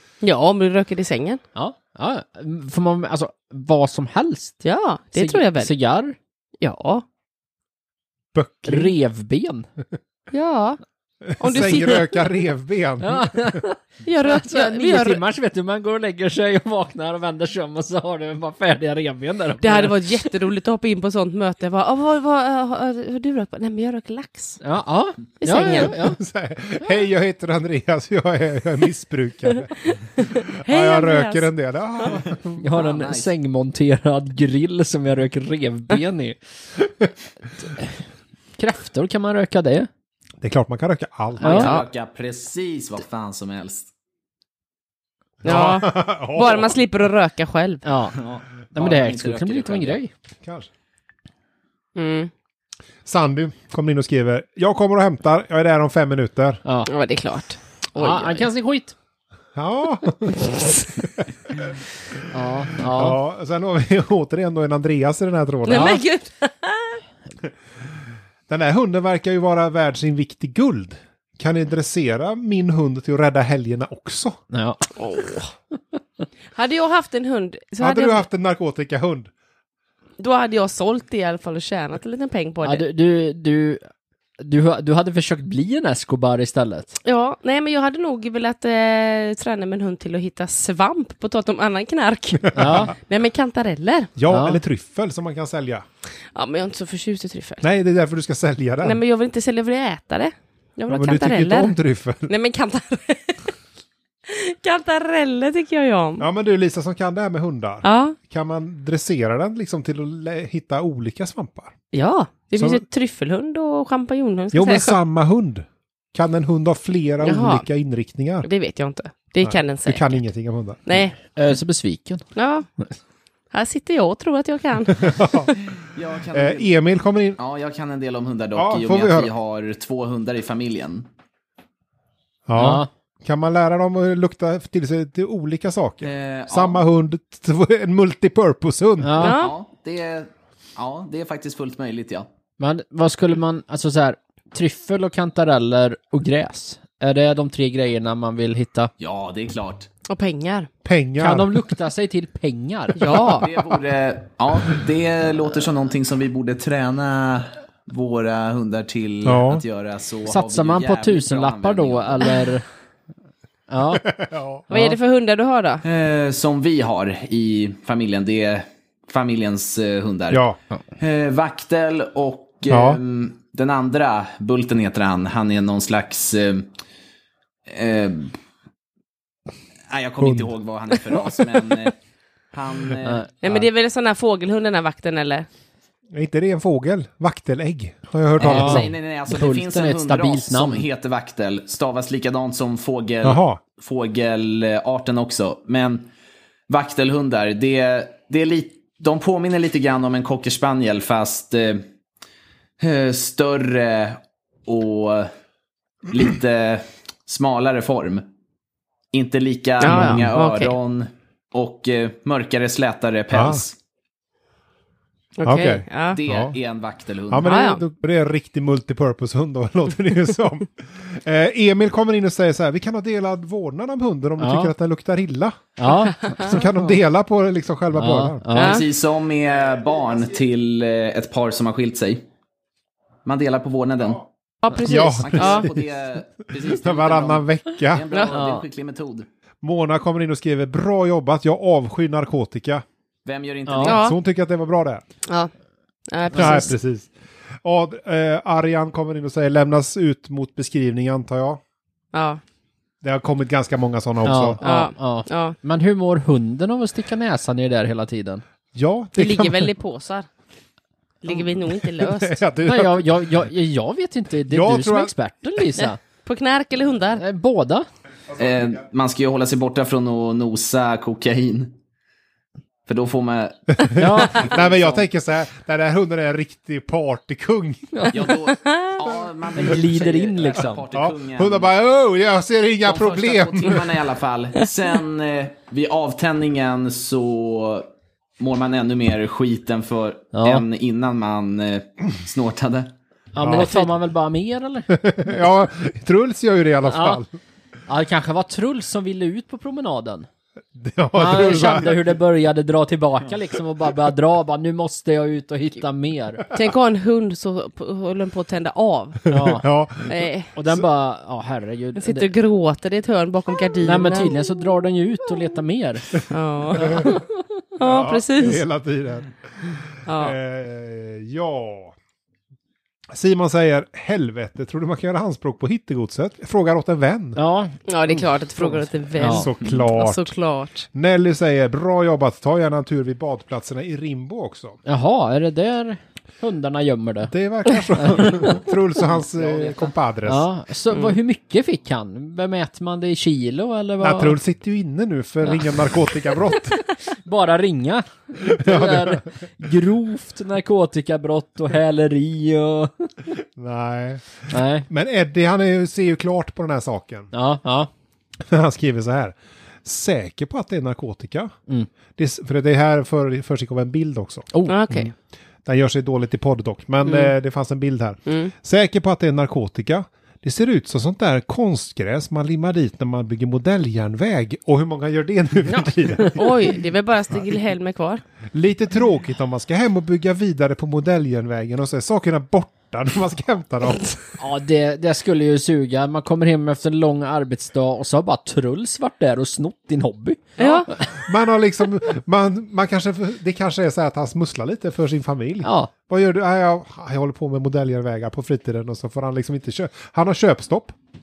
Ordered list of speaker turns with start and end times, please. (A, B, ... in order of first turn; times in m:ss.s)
0:00.2-0:01.4 A
0:01.6-0:04.6 B
0:04.6-0:05.7 A
0:05.2-0:06.2 B
0:06.6-0:07.0 A
0:08.3-0:08.9 C
0:08.6-0:09.7 B
0:10.3-0:10.8 A
0:11.3-0:13.6 C
0:11.4-0:12.3 A
0:13.0-0:20.3 B
0:14.0-0:15.2 A
0:19.6-0:24.6 A
0:24.6-0:26.2 B
0:25.4-0:26.0 A
0:25.7-0:29.7 C
0:30.0-0:31.5 A
0:30.6-0:32.6 C
0:32.2-0:33.3 D
0:32.6-0:36.4 B
0:38.6-0:39.9 B
0:40.4-0:41.7 C
0:41.4-0:43.9 D
0:41.4-0:41.7 B
0:41.4-0:41.9 A
0:45.4-0:46.8 C
0:45.4-0:47.8 A
0:47.8-0:50.1 B
0:48.2-0:50.0 D
0:50.4-0:50.7 C
0:52.0-0:52.3 A
0:53.0-0:56.6 C
0:56.6-0:56.9 B
0:56.9-0:58.5 A
0:58.0-0:58.9 B
0:59.6-1:01.8 C
1:02.3-1:03.2 B
1:02.9-1:06.0 C
1:05.6-1:07.0 A
1:05.7-1:06.0 B
1:08.5-1:14.4 C
1:14.5-1:14.8 B
1:15.0-1:15.5 A
1:16.6-1:18.2 A
1:17.8-1:19.3 C
1:20.2-1:22.8 A
1:22.6-1:23.8 B
1:24.4-1:26.9 B
1:27.0-1:34.1 A
1:32.5-1:32.9 C
1:32.6-1:32.9 B
1:34.2-1:35.8 C
1:34.3-1:34.6 B
1:36.3-1:37.7 A
1:37.6-1:39.0 C
1:38.8-1:41.8 A
1:40.9-1:42.3 C
1:42.3-1:43.5 A
1:44.3-1:46.2 A
1:46.2-1:51.7 C
1:47.8-1:48.2 A
1:51.9-1:55.0 A
1:52.6-1:52.8 C
1:54.5-1:58.5 C
1:57.2-1:57.6 A
1:58.4-2:00.2 A
1:59.4-2:01.0 C
2:00.9-2:01.2 A
2:01.4-2:02.2 B
2:02.4-2:02.7 A
2:03.5-2:05.1 A
2:05.0-2:05.5 C
2:05.8-2:06.7 D
2:06.3-2:07.4 C
2:07.4-2:11.1 D
2:08.6-2:09.3 C
2:12.5-2:19.3 C
2:12.6-2:12.9 B
2:16.0-2:16.8 D
2:19.0-2:19.4 B
2:19.2-2:19.5 A
2:19.2-2:22.3 D
2:22.6-2:28.9 B
2:29.0-2:29.9 D
2:30.1-2:30.7 A
2:30.8-2:31.6 C
2:31.2-2:33.1 B
2:33.0-2:33.5 A
2:33.1-2:42.5 D
2:39.2-2:39.6 C
2:40.3-2:42.6 B
2:43.7-2:44.1 B
2:44.0-2:44.6 C
2:44.7-2:45.8 A
2:44.7-2:45.0 B
2:45.8-2:50.4 D
2:50.3-2:50.6 C
2:51.0-2:56.7 D
2:52.7-2:53.0 C
2:57.7-2:58.4 D
2:59.9-3:02.0 D
3:00.2-3:00.5 C
3:02.5-3:03.2 D
3:03.0-3:03.6 B
3:03.4-3:05.5 A
3:06.1-3:08.9 C
3:08.4-3:10.8 B
3:08.4-3:16.1 D
3:13.2-3:13.6 C
3:16.7-3:21.8 D
3:22.8-3:25.3 D
3:26.1-3:28.2 D
3:29.1-3:33.8 D
3:29.8-3:30.8 A
3:29.9-3:30.3 C
3:33.3-3:33.6 C
3:35.4-3:36.2 A
3:35.4-3:36.6 C
3:36.1-3:37.5 D
3:37.3-3:48.5 C
3:37.4-3:37.8 A
3:44.4-3:44.7 B
3:45.8-3:46.9 B
3:45.9-3:46.5 A
3:48.0-3:48.8 B
3:48.5-3:52.3 D
3:48.6-3:48.8 A
3:53.2-3:54.2 D
3:54.6-3:55.7 A
3:54.7-3:55.7 C
3:55.2-3:59.3 D
3:56.6-3:58.0 C
3:58.3-3:58.6 B
3:59.6-4:02.8 C
4:03.2-4:04.1 D
4:03.7-4:04.0 B
4:03.8-4:05.0 C
4:03.9-4:04.2 A
4:06.1-4:06.7 A
4:06.3-4:07.1 C
4:07.6-4:11.6 C
4:12.1-4:12.4 A
4:13.0-4:14.6 C
4:14.2-4:18.4 B
4:14.6-4:15.6 A
4:18.8-4:19.7 C
4:19.2-4:20.3 A
4:21.2-4:22.4 A
4:21.4-4:23.1 C
4:22.6-4:26.0 B
4:24.5-4:25.1 C
4:25.8-4:27.2 A
4:27.2-4:27.9 B
4:28.3-4:31.8 D
4:32.9-4:35.0 D
4:33.8-4:38.1 C
4:33.9-4:34.9 B
4:37.9-4:38.2 B
4:38.1-4:41.7 D
4:38.6-4:39.2 A
4:39.6-4:40.8 B
4:40.9-4:44.0 C
4:42.8-4:52.9 D
4:50.3-4:50.6 B
4:53.4-4:54.9 B
4:53.4-4:53.8 C
4:53.6-4:53.9 A
4:54.9-4:57.3 C
4:56.9-4:57.2 B
4:57.9-5:00.3 B
5:00.8-5:02.2 C
5:01.2-5:06.5 B
5:06.5-5:09.3 A
5:09.3-5:09.7 B
5:09.3-5:10.9 C
5:10.0-5:10.5 A
5:10.6-5:12.3 B
5:12.0-5:14.3 A
5:13.8-5:16.2 B
5:16.3-5:17.2 A
5:16.8-5:17.2 C
5:17.8-5:18.6 A
5:17.8-5:22.0 C
5:20.1-5:20.4 A
5:23.1-5:27.4 C
5:27.4-5:27.8 B
5:27.9-5:30.9 A
5:29.2-5:29.5 B
5:29.3-5:30.3 C
5:30.9-5:34.8 C
5:34.8-5:37.3 B
5:37.3-5:40.5 C
5:38.0-5:38.6 B
5:39.3-5:44.4 B
5:44.0-5:46.8 C
5:45.4-5:45.7 B
5:47.2-5:53.1 B
5:48.4-5:49.2 C
5:53.6-5:57.3 C
5:54.5-5:54.9 B
5:57.3-5:57.9 B
5:58.4-6:01.5 C
6:02.2-6:04.5 C
6:04.5-6:05.0 B
6:04.7-6:05.1 A
6:05.6-6:16.8 C
6:07.0-6:07.3 A
6:08.3-6:08.5 A
6:15.6-6:16.4 B
6:16.4-6:18.2 A
6:18.5-6:24.2 C
6:24.4-6:31.2 B
6:30.6-6:30.9 A
6:30.6-6:41.0 C
6:35.6-6:35.9 B